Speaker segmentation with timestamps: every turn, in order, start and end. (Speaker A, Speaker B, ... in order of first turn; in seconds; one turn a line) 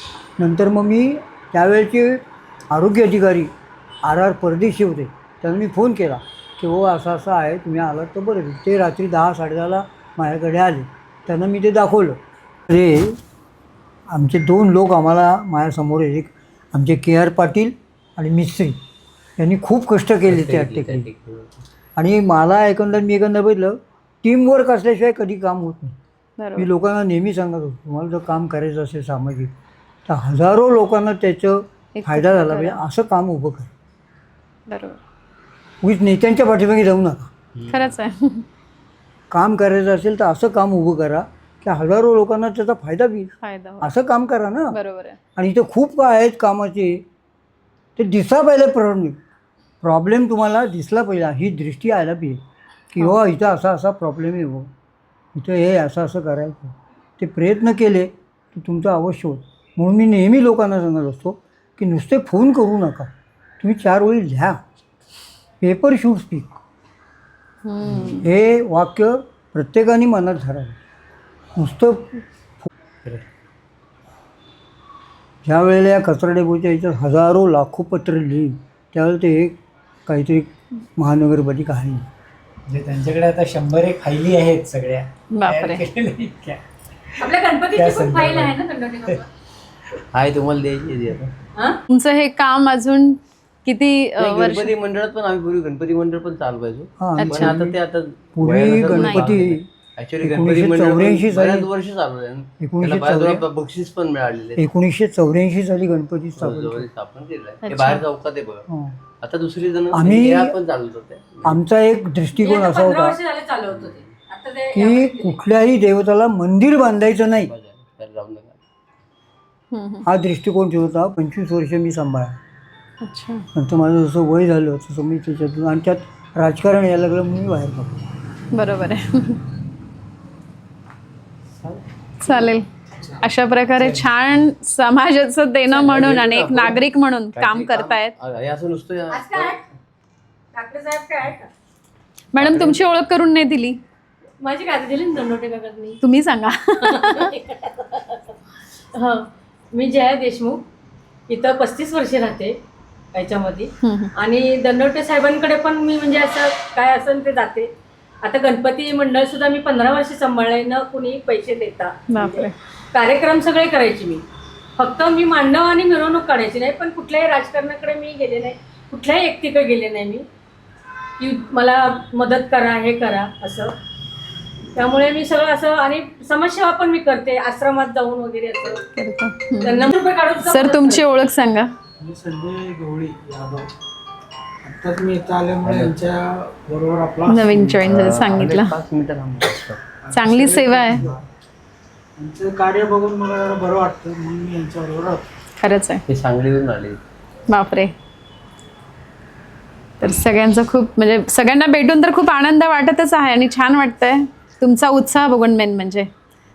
Speaker A: 0.4-3.5
Speaker A: 4.0-13.2
Speaker A: 14.1-18.8
Speaker A: 19.4-21.1
Speaker B: 20.3-21.6
Speaker A: 22.0-26.0
Speaker C: 26.4-26.7
Speaker A: 26.6-29.5
Speaker A: 30.1-33.7
Speaker C: 31.9-32.8
Speaker C: 34.7-35.0
Speaker A: 35.8-37.3
Speaker B: 37.6-37.8
Speaker C: 37.7-38.5
Speaker A: 39.3-44.8
Speaker C: 43.4-43.9
Speaker C: 44.7-45.2
Speaker A: 45.4-47.0
Speaker A: 48.0-49.2
Speaker A: 49.8-54.7
Speaker A: 55.4-64.6
Speaker A: 65.6-66.6
Speaker C: 67.7-68.3
Speaker A: 67.8-70.8
Speaker A: 71.6-72.1
Speaker A: 75.4-79.6
Speaker A: 80.1-82.1
Speaker D: 82.7-86.6
Speaker C: 85.3-85.8
Speaker E: 87.2-89.2
Speaker D: 87.8-88.6
Speaker B: 90.1-91.3
Speaker C: 91.9-94.7
Speaker B: 94.2-104.7
Speaker A: 97.0-97.8
Speaker C: 97.2-97.6
Speaker A: 98.4-99.7
Speaker C: 98.9-99.4
Speaker A: 100.2-101.7
Speaker A: 102.6-103.5
Speaker A: 104.6-106.9
Speaker B: 106.4-108.7
Speaker C: 107.6-108.0
Speaker A: 108.7-109.0
Speaker B: 109.2-111.6
Speaker A: 109.9-110.6
Speaker A: 111.4-113.2
Speaker E: 112.4-115.4
Speaker B: 113.7-114.1
Speaker A: 114.7-117.5
Speaker B: 117.3-118.6
Speaker C: 119.7-120.1
Speaker A: 120.0-122.4
Speaker C: 123.0-123.5
Speaker A: 123.5-128.0
Speaker C: 128.5-129.4
Speaker C: 132.2-132.7
Speaker C: 133.2-138.1
Speaker B: 135.8-136.8
Speaker B: 137.3-139.6
Speaker E: 139.1-139.7
Speaker E: 140.5-141.5
Speaker C: 142.3-143.8
Speaker B: 142.4-142.8
Speaker E: 144.4-146.0
Speaker C: 146.0-147.3
Speaker E: 146.8-148.2
Speaker E: 148.9-150.6
Speaker E: 151.3-152.6
Speaker E: 153.1-157.7
Speaker C: 153.8-154.1
Speaker E: 158.2-164.2
Speaker C: 162.1-162.6
Speaker E: 164.8-170.3
Speaker E: 171.2-173.8
Speaker E: 174.8-178.8
Speaker C: 178.9-181.7
Speaker E: 179.6-181.1
Speaker F: 182.0-183.7
Speaker F: 184.6-187.7
Speaker B: 185.6-186.0
Speaker C: 187.2-188.8
Speaker B: 187.7-189.8
Speaker F: 190.0-191.2
Speaker C: 190.1-191.1
Speaker F: 192.2-195.2
Speaker C: 195.6-196.0
Speaker B: 196.1-197.0
Speaker C: 197.5-197.9
Speaker C: 200.0-206.1